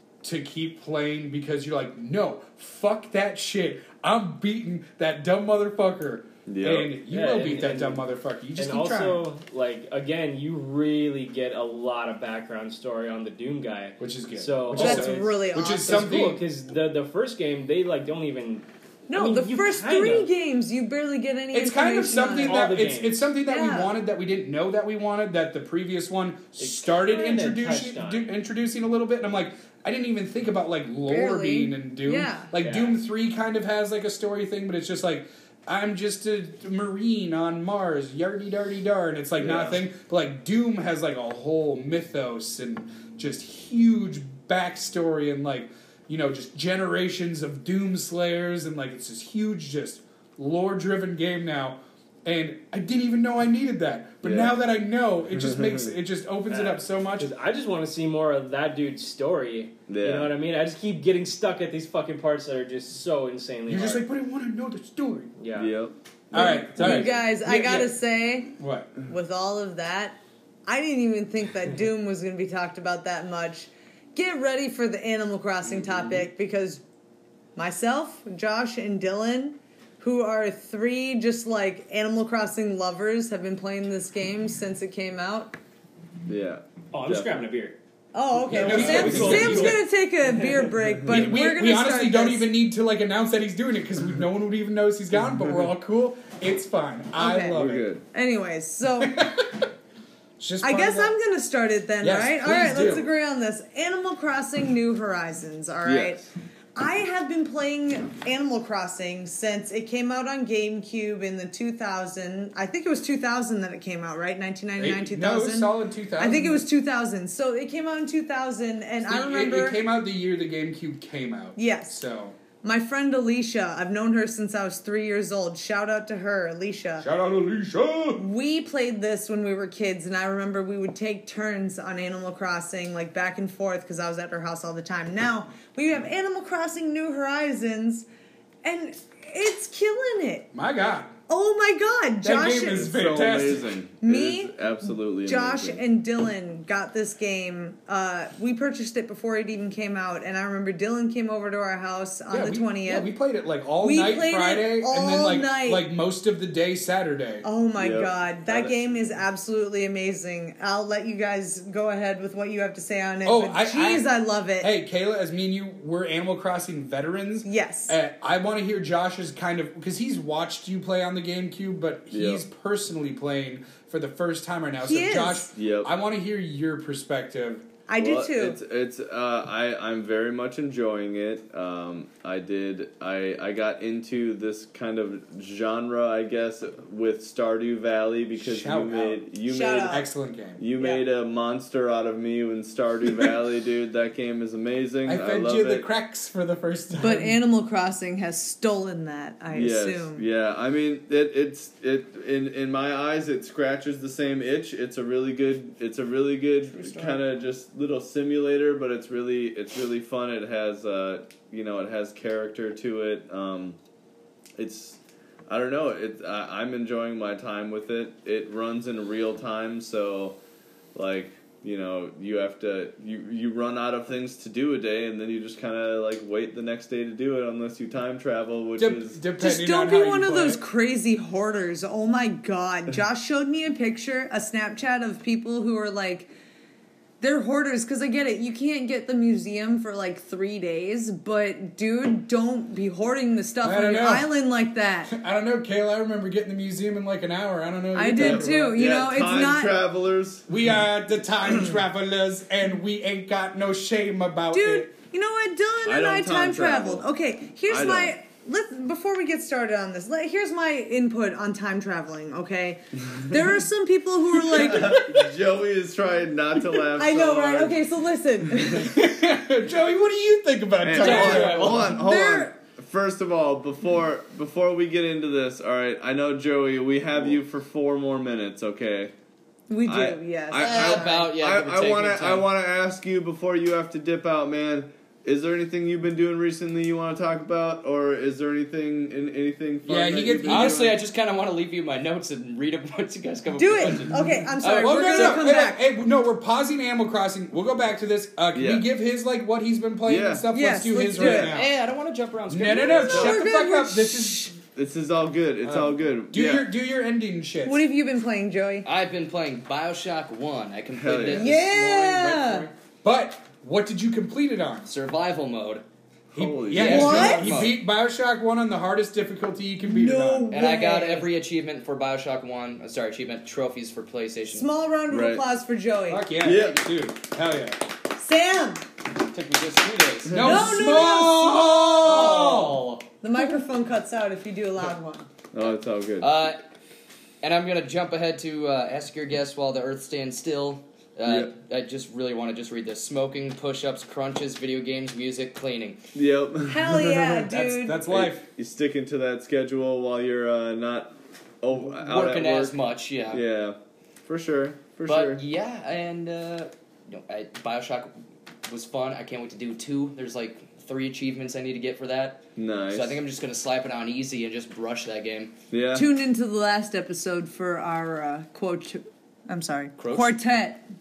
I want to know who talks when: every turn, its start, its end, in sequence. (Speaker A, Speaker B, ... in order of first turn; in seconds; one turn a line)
Speaker A: 0.2-9.2
Speaker B: 6.5-6.9
Speaker C: 7.1-8.0
Speaker C: 8.6-20.3
Speaker A: 14.0-16.4
Speaker D: 14.7-16.1
Speaker D: 19.1-22.6
Speaker A: 21.5-57.3
Speaker C: 22.4-23.2
Speaker D: 23.4-23.9
Speaker C: 26.6-28.3
Speaker D: 31.1-32.5
Speaker C: 32.5-33.0
Speaker B: 39.4-39.8
Speaker B: 54.2-54.5
Speaker B: 55.5-55.9
Speaker C: 56.5-64.0
Speaker B: 59.9-60.3
Speaker A: 63.7-65.3
Speaker C: 65.4-65.7
Speaker B: 65.5-65.9
Speaker A: 66.3-68.0
Speaker D: 66.3-76.8
Speaker C: 66.4-67.1
Speaker A: 68.6-68.9
Speaker B: 75.7-76.2
Speaker D: 77.5-85.5
Speaker B: 86.3-87.4
Speaker C: 86.9-87.8
Speaker D: 88.1-92.5
Speaker A: 88.5-89.8
Speaker C: 88.5-89.8
Speaker B: 88.7-89.3
Speaker C: 90.4-90.7
Speaker A: 91.1-97.9
Speaker D: 97.1-99.2
Speaker B: 97.5-98.0
Speaker A: 99.0-99.7
Speaker A: 100.4-101.1
Speaker D: 100.6-106.2
Speaker A: 102.0-103.1
Speaker B: 105.8-106.3
Speaker D: 106.8-119.8
Speaker A: 114.8-116.7
Speaker A: 119.0-122.4
Speaker D: 121.5-122.0
Speaker D: 122.6-127.1
Speaker A: 127.0-128.2
Speaker D: 128.2-138.1
Speaker D: 138.6-140.5
Speaker A: 140.5-141.1
Speaker D: 141.3-142.9
Speaker A: 142.2-143.6
Speaker B: 142.7-145.8
Speaker D: 144.0-153.1
Speaker A: 152.3-157.5
Speaker D: 153.8-155.8
Speaker D: 157.4-164.7
Speaker B: 157.8-158.8
Speaker A: 163.2-177.7
Speaker D: 167.4-168.0
Speaker B: 172.1-172.4
Speaker D: 174.8-175.5
Speaker B: 175.6-175.9
Speaker D: 177.9-178.6
Speaker B: 178.0-190.0
Speaker A: 188.4-189.2
Speaker D: 189.5-190.1
Speaker A: 189.8-190.6
Speaker B: 190.6-195.9
Speaker D: 190.8-191.0
Speaker A: 195.0-197.3
Speaker D: 197.0-200.2
Speaker B: 199.5-213.8
Speaker D: 206.7-207.2
Speaker B: 214.6-220.4
Speaker B: 220.9-229.2
Speaker A: 228.8-230.6
Speaker D: 229.4-236.3
Speaker D: 237.2-245.1
Speaker A: 243.6-244.3
Speaker A: 245.1-248.8
Speaker D: 247.9-249.8
Speaker B: 248.2-250.5
Speaker A: 250.5-254.9
Speaker D: 254.5-265.1
Speaker B: 255.8-257.1
Speaker B: 257.7-258.1
Speaker B: 264.5-267.8
Speaker D: 266.9-269.0
Speaker A: 268.7-271.8
Speaker B: 270.8-279.1
Speaker E: 270.9-271.9
Speaker D: 271.1-272.5
Speaker D: 279.7-281.2
Speaker B: 279.9-291.0
Speaker E: 280.5-282.5
Speaker A: 289.9-290.9
Speaker E: 290.4-295.4
Speaker D: 293.5-295.8
Speaker A: 294.8-301.7
Speaker B: 298.5-298.9
Speaker B: 300.1-300.5
Speaker D: 300.5-301.6
Speaker E: 301.2-303.4
Speaker A: 302.5-304.5
Speaker D: 302.7-304.5
Speaker B: 304.7-306.7
Speaker A: 305.6-307.8
Speaker D: 307.6-308.9
Speaker E: 308.8-312.7
Speaker B: 310.9-311.5
Speaker D: 311.3-312.7
Speaker A: 313.0-314.9
Speaker E: 314.9-315.8
Speaker B: 316.3-317.6
Speaker A: 316.3-320.5
Speaker E: 316.7-317.8
Speaker D: 316.8-317.6
Speaker D: 319.8-321.3
Speaker E: 320.5-324.7
Speaker D: 324.5-326.3
Speaker B: 325.1-325.4
Speaker A: 326.1-327.8
Speaker B: 326.4-326.8
Speaker D: 328.2-328.8
Speaker E: 329.2-330.9
Speaker A: 330.3-332.9
Speaker D: 330.4-332.6
Speaker E: 331.9-333.0
Speaker D: 333.2-335.3
Speaker B: 335.5-336.3
Speaker E: 336.2-336.6
Speaker E: 337.4-346.0
Speaker B: 341.2-341.5
Speaker B: 346.1-347.4
Speaker D: 346.7-348.1
Speaker A: 347.4-348.4
Speaker B: 348.1-355.4
Speaker E: 351.9-353.4
Speaker E: 355.1-358.1
Speaker E: 358.6-365.5
Speaker B: 362.6-363.2
Speaker B: 365.7-366.1
Speaker D: 365.9-370.8
Speaker E: 370.0-370.4